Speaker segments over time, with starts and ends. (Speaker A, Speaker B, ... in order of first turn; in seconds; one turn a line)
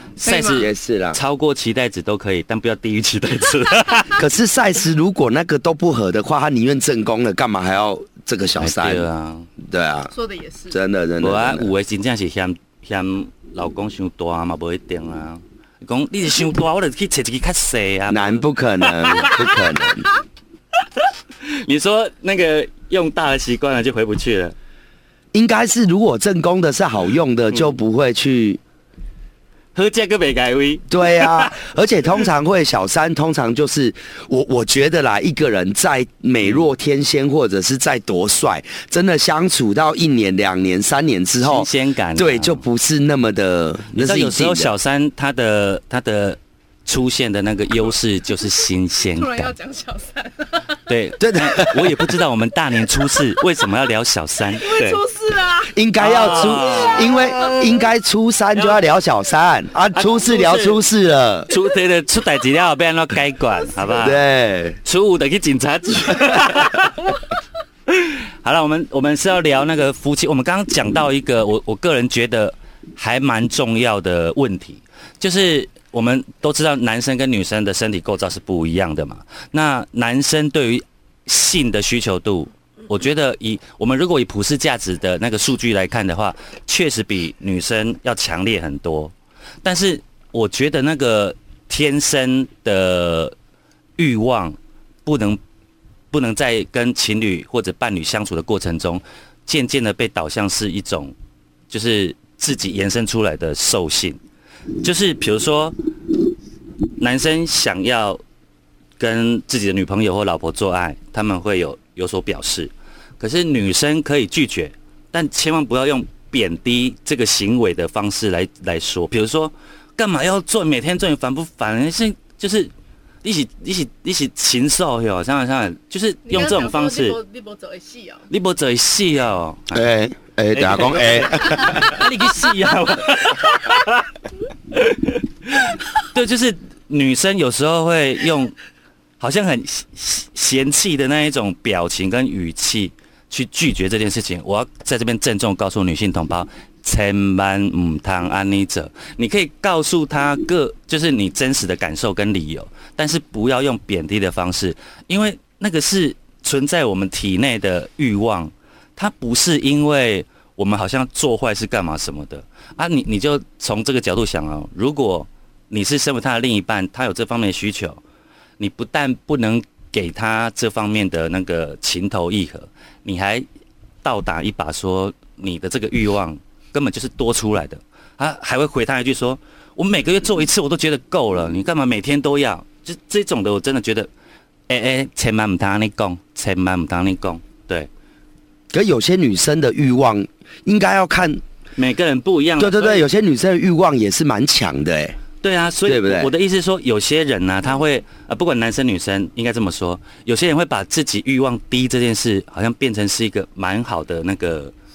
Speaker A: 0.2-4.2
Speaker B: 0.2-0.7
Speaker C: 0.5-1.2
Speaker C: 4.2-9.1
Speaker A: 8.6-9.5
Speaker C: 9.6-10.1
Speaker B: 10.1-10.8
Speaker C: 10.7-11.7
Speaker A: 11.2-18.4
Speaker C: 18.1-20.1
Speaker A: 19.0-19.5
Speaker A: 21.0-24.6
Speaker C: 25.3-28.6
Speaker A: 29.8-31.6
Speaker C: 30.9-44.7
Speaker A: 41.4-42.6
Speaker A: 44.0-49.5
Speaker B: 49.2-50.7
Speaker A: 50.9-55.0
Speaker C: 51.2-52.1
Speaker B: 54.6-57.7
Speaker C: 55.7-61.5
Speaker A: 56.0-57.2
Speaker A: 58.5-58.8
Speaker A: 59.9-60.8
Speaker A: 61.5-64.2
Speaker C: 64.0-64.8
Speaker A: 64.8-67.2
Speaker A: 67.9-93.3
Speaker A: 94.0-95.4
Speaker A: 96.1-101.2
Speaker A: 101.7-104.2
Speaker A: 104.8-105.8
Speaker A: 107.0-108.2
Speaker A: 109.0-122.7
Speaker A: 123.2-127.2
Speaker B: 126.3-128.3
Speaker A: 128.3-129.8
Speaker C: 129.7-132.0
Speaker A: 130.5-134.1
Speaker A: 134.7-138.6
Speaker A: 139.2-168.0
Speaker A: 168.6-173.5
Speaker A: 174.0-184.1
Speaker A: 184.7-187.9
Speaker C: 188.7-191.4
Speaker A: 191.8-193.1
Speaker C: 192.6-195.2
Speaker A: 195.4-204.7
Speaker C: 195.8-196.3